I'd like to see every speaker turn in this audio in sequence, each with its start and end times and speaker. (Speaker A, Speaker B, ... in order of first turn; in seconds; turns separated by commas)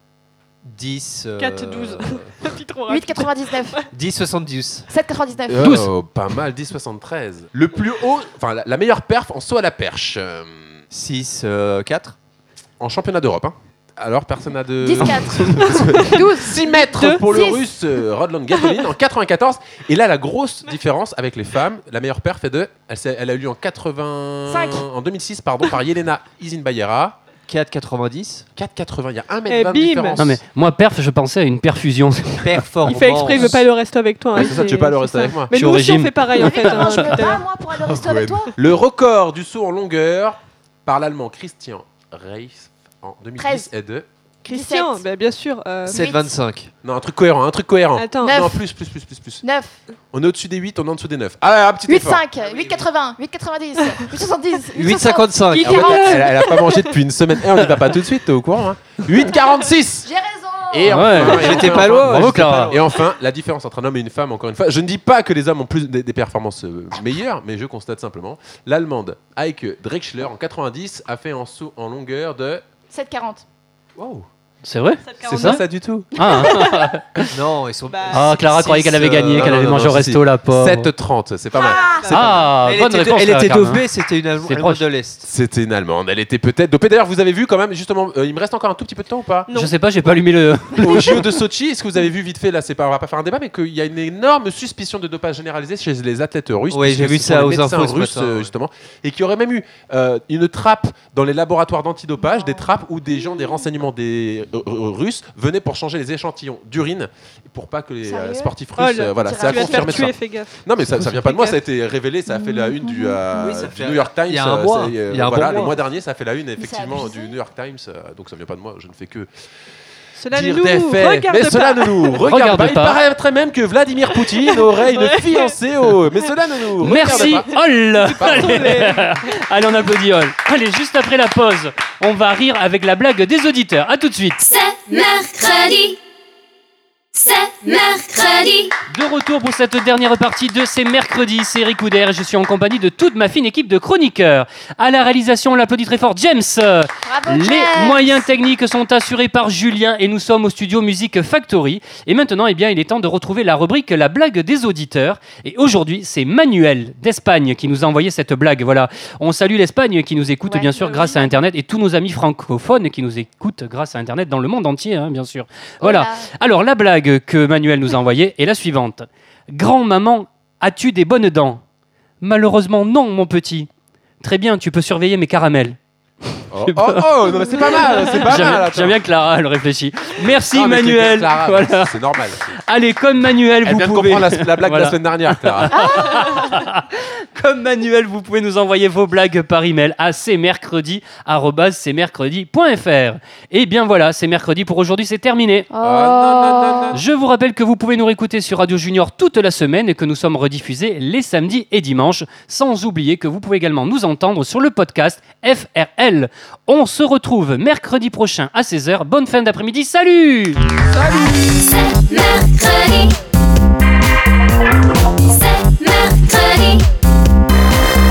Speaker A: 0.6-2.3, Speaker B: 1.4-3.8, Speaker C: 2.9-3.9, Speaker A: 3.9-4.8, Speaker C: 4.9-5.7, Speaker D: 5.5-10.7, Speaker E: 5.6-5.9, Speaker A: 10.9-12.2, Speaker D: 12.8-27.2, Speaker C: 14.8-17.6, Speaker B: 15.6-17.2, Speaker C: 24.5-24.8, Speaker A: 27.5-28.5, Speaker D: 28.5-30.4, Speaker B: 29.5-30.2, Speaker E: 30.2-32.9, Speaker A: 32.4-33.6, Speaker B: 32.9-37.4, Speaker D: 34.3-35.5, Speaker E: 35.5-37.1, Speaker C: 36.4-38.5, Speaker D: 37.7-44.0, Speaker C: 43.4-43.7, Speaker B: 44.5-46.3, Speaker C: 44.5-45.0, Speaker A: 45.9-46.7, Speaker C: 45.9-46.2, Speaker D: 46.8-49.4, Speaker B: 48.0-48.5, Speaker C: 48.2-48.6, Speaker C: 49.4-49.8, Speaker D: 50.1-52.8, Speaker C: 51.9-56.8, Speaker A: 54.7-56.1, Speaker D: 55.5-60.1, Speaker C: 60.0-61.2, Speaker D: 60.7-72.6, Speaker E: 60.9-62.8, Speaker A: 61.2-62.9, Speaker C: 72.9-73.4, Speaker D: 74.0-74.2, Speaker E: 74.6-75.6, Speaker B: 75.0-75.6, Speaker D: 75.2-76.1, Speaker E: 76.1-77.3, Speaker C: 76.2-76.7, Speaker A: 77.3-79.6, Speaker B: 77.9-78.4, Speaker E: 78.1-80.9, Speaker D: 79.3-82.5, Speaker B: 81.5-82.2, Speaker C: 81.6-82.1, Speaker E: 82.1-83.8, Speaker A: 82.5-85.3, Speaker E: 84.4-84.8, Speaker D: 85.2-89.5, Speaker E: 89.5-91.2, Speaker D: 90.8-119.3, Speaker A: 96.7-98.5, Speaker C: 102.2-102.7, Speaker C: 108.0-108.5, Speaker B: 108.8-110.5, Speaker C: 109.2-110.1, Speaker A: 111.0-111.4, Speaker C: 112.3-113.2, Speaker A: 113.3-115.8, Speaker C: 116.6-117.4, Speaker B: 120.2-122.2, Speaker D: 120.3-127.6, Speaker E: 122.2-123.0, Speaker B: 124.1-125.6, Speaker E: 126.8-134.4, Speaker B: 126.9-129.2, Speaker D: 128.2-128.8, Speaker F: 134.4-136.0, Speaker F: 137.1-138.8, Speaker E: 138.9-171.6, Speaker C: 147.0-148.3, Speaker C: 160.5-161.3, Speaker C: 165.8-166.3, Speaker E: 172.2-173.7, Speaker E: 174.2-175.8, Speaker E: 176.4-182.0, Speaker D: 176.5-179.0, Speaker D: 180.5-182.4, Speaker E: 182.5-195.7, Speaker D: 183.6-185.8, Speaker C: 185.7-186.5, Speaker C: 195.7-197.0, Speaker D: 195.8-197.0, Speaker E: 196.9-210.6, Speaker D: 211.0-211.3, Speaker F: 211.1-213.2, Speaker F: 215.2-216.8